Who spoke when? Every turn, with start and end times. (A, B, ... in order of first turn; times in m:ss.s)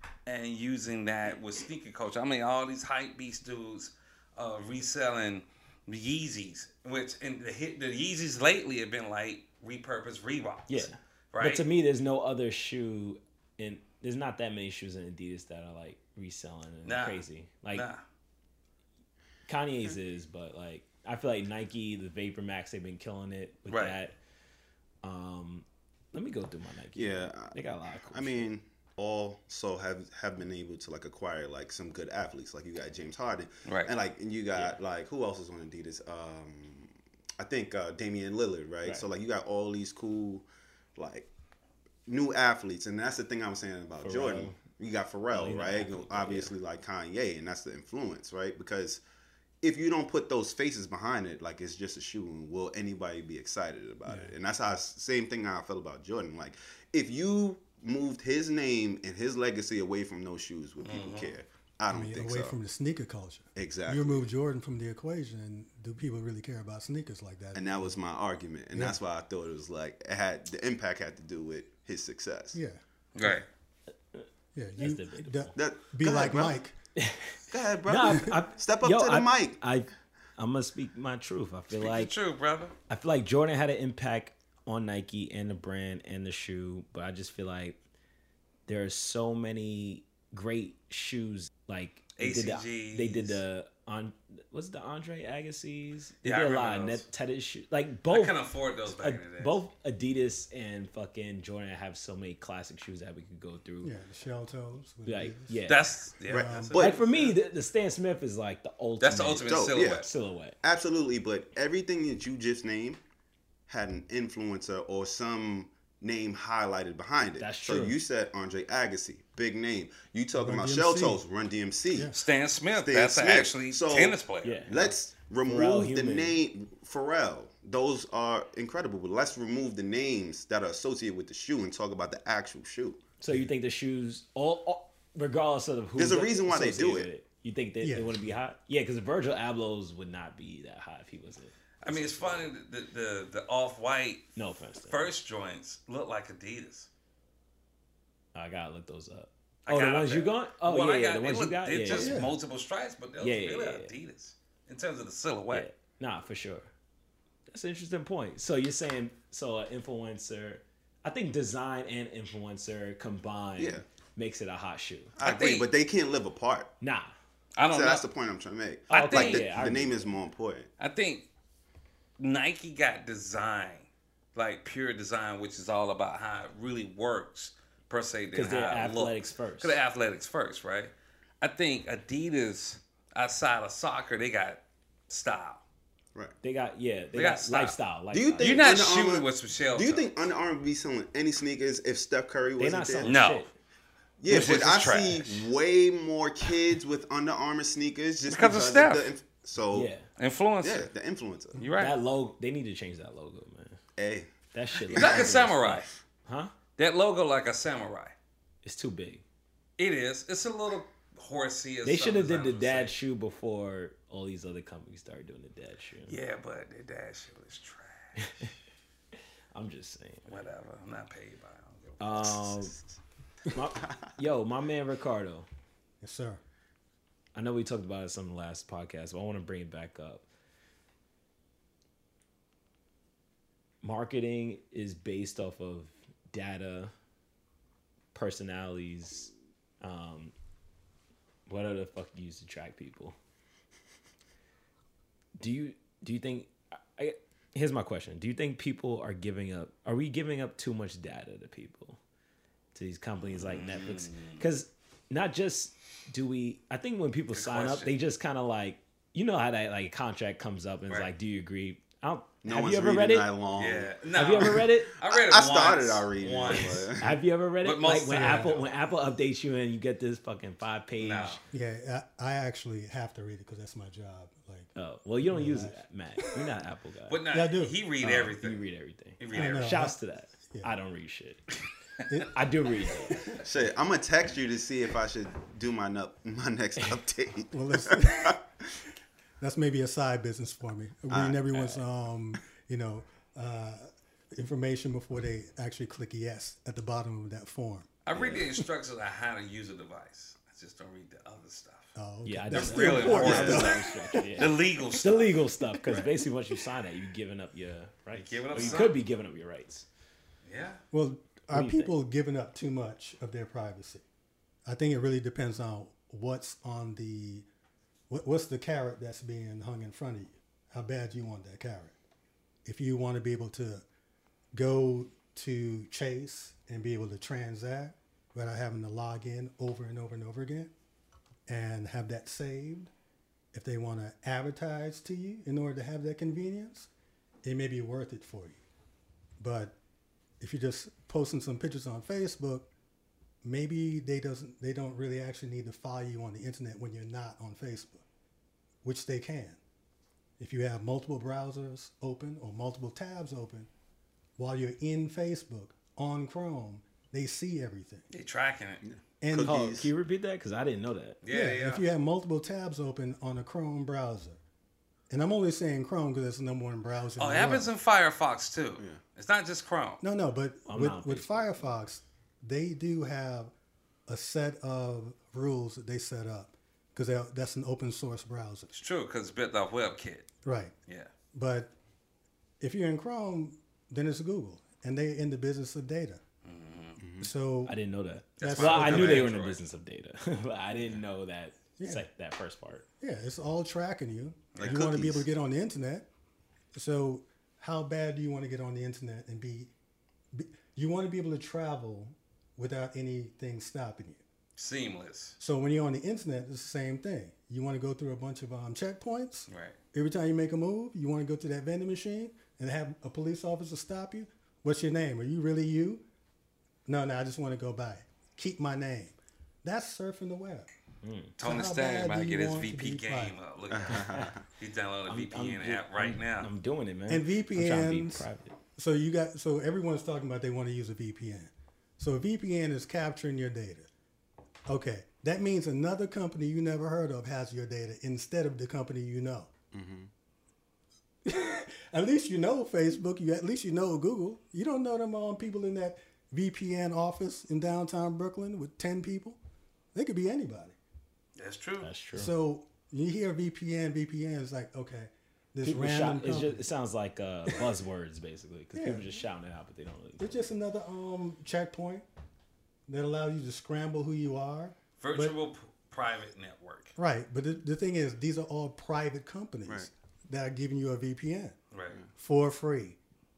0:00.3-0:11.6 A
0:10.7-0:17.9 B
0:16.8-0:18.0 A
0:19.5-0:24.1 B
0:23.7-0:24.0 A
0:25.0-0:28.5 B
0:27.0-0:27.6 C
0:28.1-0:41.3 C
0:33.7-0:33.9 A
0:42.1-0:49.0 C
0:44.0-0:44.6 B
0:45.3-0:46.5 B
0:49.6-1:02.6 C
0:54.1-0:54.3 D
1:00.8-1:01.4 A
1:01.9-1:08.0 D
1:03.6-1:04.3 C
1:07.5-1:12.6 C
1:12.5-1:13.4 D
1:13.2-1:13.5 A
1:14.5-1:16.8 D
1:14.8-1:15.5 B
1:15.6-1:16.6 C
1:17.0-1:22.2 B
1:17.5-1:19.6 C
1:21.7-1:22.7 A
1:22.9-1:27.8 B
1:28.7-1:38.4 B
1:32.2-1:33.4 A
1:36.2-1:37.0 A
1:38.1-1:39.6 A
1:38.9-1:43.9 B
1:43.8-1:45.6 D
1:45.1-1:45.8 B
1:45.7-1:47.4 A
1:46.3-1:46.8 D
1:46.3-1:47.0 C
1:46.8-1:50.6 B
1:49.0-1:50.1 A
1:49.5-1:50.1 C
1:50.6-1:53.0 C
1:53.7-2:02.2 C
1:57.4-1:58.0 B
2:00.4-2:01.2 D
2:02.1-2:04.9 A
2:02.8-2:13.0 C
2:04.4-2:04.9 B
2:05.4-2:06.4 B
2:13.2-2:22.5 B
2:16.0-2:17.1 C
2:17.8-2:18.2 D
2:21.8-2:26.9 A
2:24.4-2:25.1 B
2:28.4-2:32.3 B
2:29.7-2:35.7 A
2:31.9-2:32.3 D
2:33.2-2:33.9 B
2:35.5-2:36.7 B
2:37.5-2:45.1 B
2:43.6-2:43.8 C
2:45.2-2:46.7 C
2:45.2-2:45.7 A
2:46.8-2:47.1 B
2:47.6-2:48.0 A
2:47.7-2:50.7 C
2:48.9-2:49.5 A
2:48.9-2:50.1 B
2:50.8-2:51.3 A
2:52.2-3:05.6 A
2:58.3-2:59.8 B
3:06.4-3:08.6 B
3:07.2-3:07.8 A
3:08.1-3:13.2 C
3:08.4-3:10.1 A
3:12.6-3:13.5 B
3:13.0-3:13.5 A
3:14.2-3:19.9 C
3:14.3-3:15.5 A
3:18.3-3:19.1 A
3:19.7-3:20.1 B
3:20.2-3:20.9 A
3:20.6-3:21.6 C
3:21.6-3:22.0 A
3:21.8-3:23.8 B
3:24.0-3:24.3 C
3:24.5-3:26.5 B
3:24.9-3:25.4 C
3:24.9-3:25.9 A
3:26.8-3:28.2 A
3:28.6-3:29.2 B
3:29.8-3:32.9 A
3:31.8-3:36.2 B
3:36.1-3:38.5 A
3:38.2-3:38.5 B
3:39.5-3:40.4 B
3:40.3-3:42.4 A
3:42.0-3:42.8 B
3:42.2-3:42.9 C
3:43.5-3:45.5 B
3:46.0-3:46.4 D
3:47.4-3:50.3 B
3:53.8-3:56.9 B
3:58.1-4:00.3 B
4:01.5-4:03.2 B
4:05.4-4:12.0 B
4:12.7-4:23.3 B
4:13.3-4:14.4 A
4:17.3-4:17.9 A
4:22.4-4:27.2 C
4:23.5-4:26.9 A
4:24.2-4:24.9 B
4:27.0-4:31.4 B
4:27.6-4:28.7 A
4:28.1-4:28.7 D
4:31.0-4:31.4 A
4:31.5-4:34.7 D
4:34.8-4:37.2 B
4:35.3-4:36.4 D
4:37.1-4:38.6 A
4:37.3-4:37.8 D
4:38.0-4:41.5 B
4:39.2-4:39.9 A
4:39.3-4:40.0 D
4:42.1-4:42.4 D
4:42.3-4:43.3 B
4:43.1-4:43.4 D
4:43.4-4:48.4 C
4:47.5-4:48.4 D
4:49.4-4:57.9 D
4:51.1-4:51.4 C
4:51.5-4:51.8 B
4:58.1-5:02.0 A
4:58.2-4:58.4 B
5:02.0-5:04.4 D
5:02.2-5:09.9 B
5:02.5-5:03.8 A
5:03.1-5:03.7 C
5:04.4-5:06.1 A
5:08.1-5:09.0 A
5:10.4-5:10.8 A
5:10.9-5:14.0 D
5:11.5-5:11.9 B
5:14.7-5:17.5 D
5:18.1-5:21.9 D
5:22.6-5:23.8 D
5:24.5-5:30.7 D
5:31.5-5:32.9 D
5:33.5-5:36.9 D
5:37.4-5:38.6 D
5:39.4-5:39.8 D
5:40.4-5:42.7 D
5:43.4-5:48.0 D
5:48.8-5:49.6 D
5:50.4-5:53.7 D
5:54.4-5:58.0 D
5:58.1-5:58.8 A
5:58.8-5:59.9 C
5:59.2-5:59.6 D
5:59.4-6:01.2 B
6:01.2-6:01.8 A
6:01.3-6:04.4 D
6:05.1-6:07.7 D
6:07.2-6:10.0 A
6:10.0-6:13.5 D
6:10.7-6:11.5 B
6:14.1-6:18.7 D
6:18.7-6:20.3 A
6:20.4-6:20.7 D
6:21.3-6:21.7 D
6:22.6-6:26.2 D
6:26.4-6:27.0 A
6:27.0-6:27.3 C
6:27.2-6:27.8 D
6:27.7-6:32.9 B
6:28.4-6:29.3 D
6:28.4-6:29.6 A
6:31.8-6:32.0 D
6:33.0-6:36.1 D
6:34.5-6:34.9 A
6:34.6-6:35.3 C
6:36.7-6:39.7 D
6:40.3-6:44.2 D
6:44.6-6:45.4 A
6:45.4-6:56.0 D
6:49.5-6:49.8 A
6:56.9-7:00.7 D
7:01.0-7:01.4 B
7:01.4-7:06.5 A
7:01.4-7:03.4 D
7:03.7-7:04.4 C
7:04.0-7:04.3 B
7:05.1-7:08.6 B
7:07.1-7:13.9 D
7:14.7-7:19.5 D
7:19.7-7:20.1 C
7:21.2-7:29.4 D
7:29.9-7:30.8 D
7:31.4-7:31.9 A
7:31.8-7:32.3 B
7:32.1-7:36.6 D
7:35.6-7:40.5 B
7:38.8-7:39.0 D
7:40.2-7:42.1 D
7:42.9-7:45.4 D
7:45.0-7:46.9 A
7:47.0-7:51.6 D
7:51.7-7:52.0 A
7:52.2-7:53.0 D